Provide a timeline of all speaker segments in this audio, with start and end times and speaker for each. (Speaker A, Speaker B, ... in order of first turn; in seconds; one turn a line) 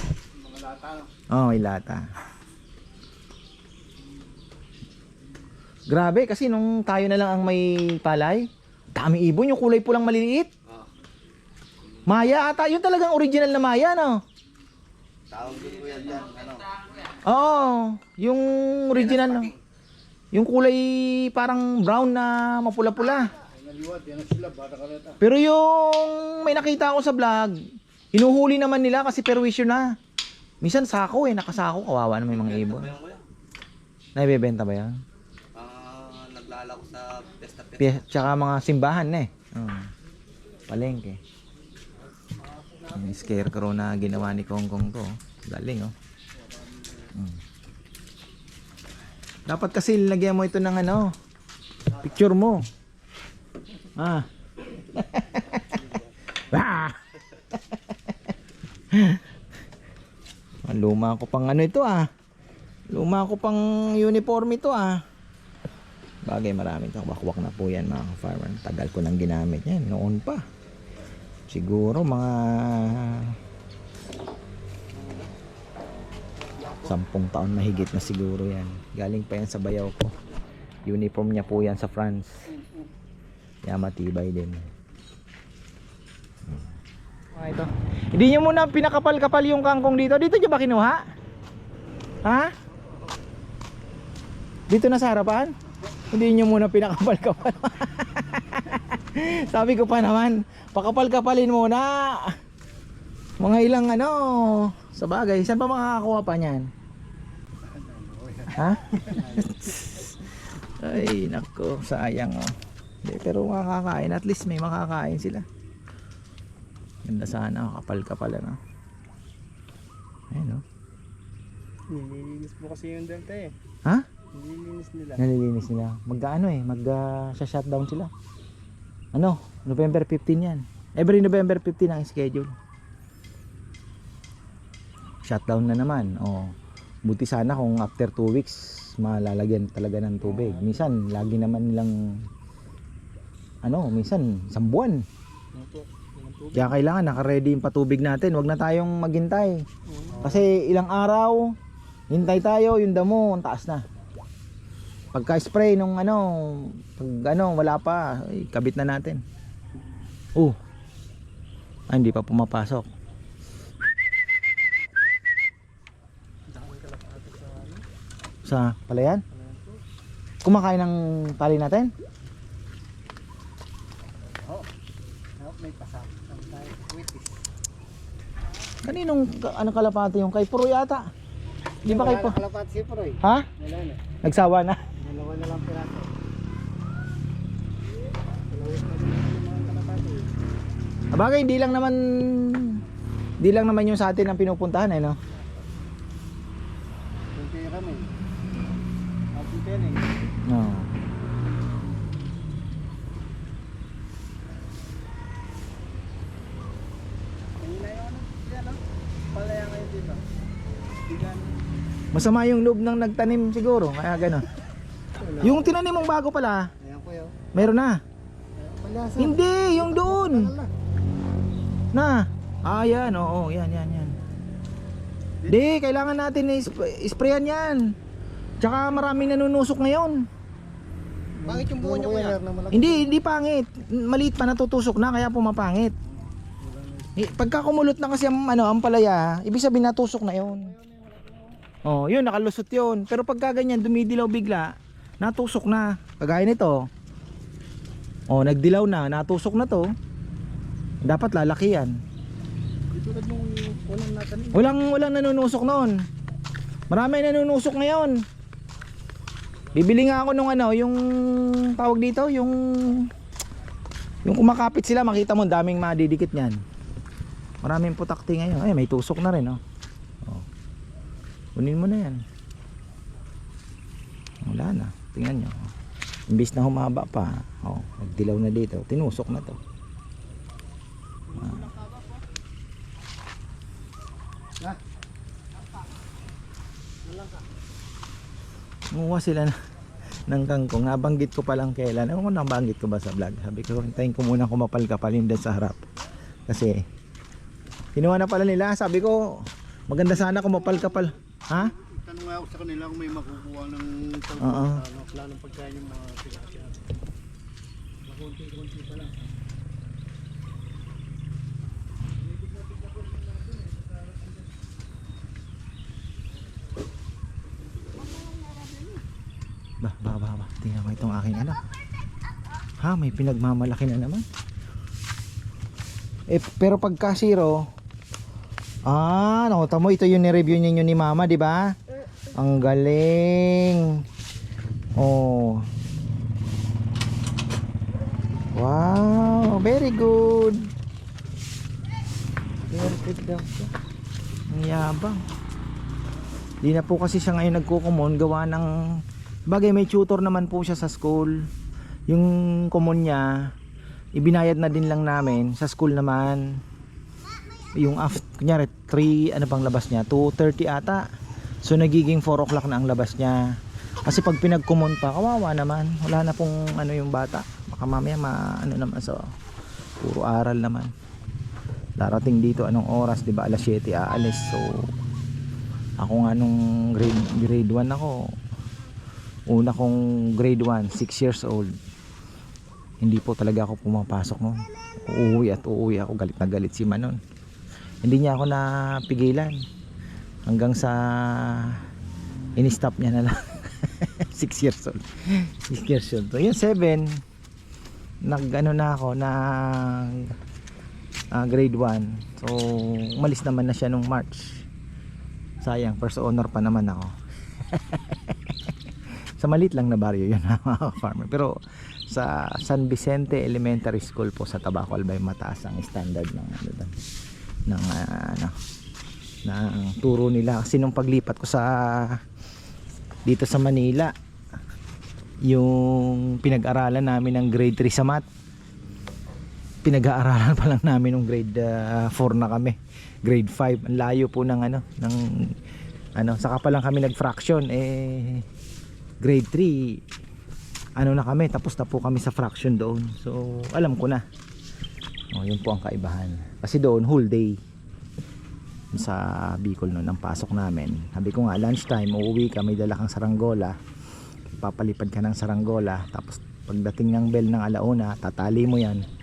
Speaker A: 0.3-1.1
Speaker B: 1.3-2.1
Speaker B: 5.9-10.5
Speaker B: 12.1-14.2
Speaker C: 15.3-17.1
Speaker A: 15.7-16.6
Speaker B: 17.2-19.5
Speaker C: 19.0-19.5
Speaker B: 20.3-23.3
Speaker A: 23.4-25.2
Speaker B: 25.2-27.6
Speaker B: 28.1-29.9
Speaker B: 30.6-32.9
Speaker C: 32.4-33.2
Speaker B: 34.1-35.0
Speaker C: 35.5-38.0
Speaker B: 37.8-39.9
Speaker B: 40.7-41.2
Speaker A: 42.0-43.4
Speaker B: 42.9-45.9
Speaker A: 46.3-47.1
Speaker B: 49.5-51.1
Speaker B: 52.0-52.6
Speaker B: 54.0-54.3
Speaker B: 54.9-55.9
Speaker A: 55.7-56.1
Speaker B: 56.4-58.1
Speaker B: 58.9-59.2
Speaker B: 60.6-62.1
Speaker B: 62.9-65.0
Speaker B: 66.2-70.4
Speaker B: 71.5-73.3
Speaker B: 76.8-80.1
Speaker B: 80.8-82.4
Speaker B: 83.6-84.7
Speaker B: 87.3-91.0
Speaker B: 92.2-92.5
Speaker B: 94.7-95.5
Speaker B: 96.1-102.4
Speaker B: 103.4-106.7
Speaker A: 107.6-109.7
Speaker B: 108.5-112.5
Speaker B: 113.0-115.5
Speaker B: 117.0-118.6
Speaker B: 120.3-120.6
Speaker A: 121.9-123.5
Speaker A: 124.3-125.2
Speaker B: 125.2-128.1
Speaker B: 129.1-132.5
Speaker B: 135.2-136.5
Speaker B: 137.0-142.2
Speaker A: 140.3-140.8
Speaker B: 143.6-145.0
Speaker A: 145.5-146.8
Speaker B: 146.5-149.6
Speaker A: 149.9-150.5
Speaker B: 150.2-151.6
Speaker B: 152.1-153.8
Speaker B: 155.1-159.2
Speaker B: 161.9-162.9
Speaker A: 166.5-167.8
Speaker B: 168.4-169.2
Speaker A: 169.3-169.8
Speaker B: 170.4-171.9
Speaker A: 174.4-174.7
Speaker A: 175.4-177.4
Speaker B: 178.8-181.1
Speaker A: 181.8-184.0
Speaker B: 181.8-182.4
Speaker B: 184.2-184.8
Speaker A: 185.0-186.2
Speaker A: 188.5-190.4
Speaker B: 191.1-192.8
Speaker B: 193.4-195.2
Speaker A: 197.3-198.2
Speaker A: 199.3-200.2
Speaker B: 200.5-200.9
Speaker A: 207.5-210.2
Speaker A: 211.0-211.6
Speaker B: 212.1-214.5
Speaker A: 215.2-215.8
Speaker B: 215.4-216.7
Speaker A: 216.8-217.4
Speaker B: 217.5-218.0
Speaker A: 218.6-220.7
Speaker B: 219.2-220.5
Speaker B: 221.9-224.1
Speaker B: 225.5-227.9
Speaker B: 228.6-230.2
Speaker A: 231.3-233.1
Speaker B: 231.4-235.9
Speaker A: 236.6-237.3
Speaker B: 237.2-240.7
Speaker A: 240.4-241.6
Speaker B: 241.8-246.9
Speaker B: 248.3-249.9
Speaker B: 251.0-251.9
Speaker A: 252.9-254.7
Speaker B: 254.5-256.0
Speaker B: 256.9-258.2
Speaker B: 259.7-263.1
Speaker B: 264.2-266.6
Speaker B: 267.6-269.6
Speaker B: 271.6-272.2
Speaker B: 274.4-275.7
Speaker B: 276.3-279.6
Speaker A: 281.3-282.2
Speaker B: 281.4-281.7
Speaker A: 287.0-287.4
Speaker B: 288.9-289.5
Speaker B: 290.3-295.9
Speaker B: 296.5-296.8
Speaker B: 297.9-301.7
Speaker A: 300.5-301.0
Speaker A: 301.7-306.9
Speaker B: 304.4-304.8
Speaker A: 308.0-309.3
Speaker A: 312.5-313.8
Speaker C: 318.2-318.8
Speaker B: 319.8-321.6
Speaker B: 322.8-324.2
Speaker B: 326.3-327.7
Speaker B: 328.9-331.8
Speaker B: 332.3-334.0
Speaker B: 335.0-335.6
Speaker B: 338.5-340.7
Speaker B: 342.7-343.7
Speaker B: 344.5-345.2
Speaker B: 346.6-351.5
Speaker B: 352.1-353.5
Speaker B: 354.1-356.6
Speaker B: 357.7-361.0
Speaker B: 361.6-369.2
Speaker B: 370.0-370.9
Speaker B: 372.0-374.9
Speaker B: 376.0-378.2
Speaker B: 379.5-381.7
Speaker B: 383.0-387.2
Speaker B: 388.0-389.6
Speaker B: 390.4-391.8
Speaker B: 392.6-397.2
Speaker B: 398.2-400.3
Speaker B: 401.3-404.6
Speaker B: 405.6-407.1
Speaker B: 407.7-408.5
Speaker B: 409.4-411.6
Speaker B: 412.1-416.9
Speaker B: 417.7-418.6
Speaker B: 419.4-422.2
Speaker B: 423.2-424.1
Speaker B: 425.4-428.2
Speaker B: 429.8-435.5
Speaker B: 436.1-438.4
Speaker B: 439.2-440.0
Speaker B: 441.0-444.2
Speaker B: 445.3-447.6
Speaker B: 448.9-453.8
Speaker B: 454.5-459.0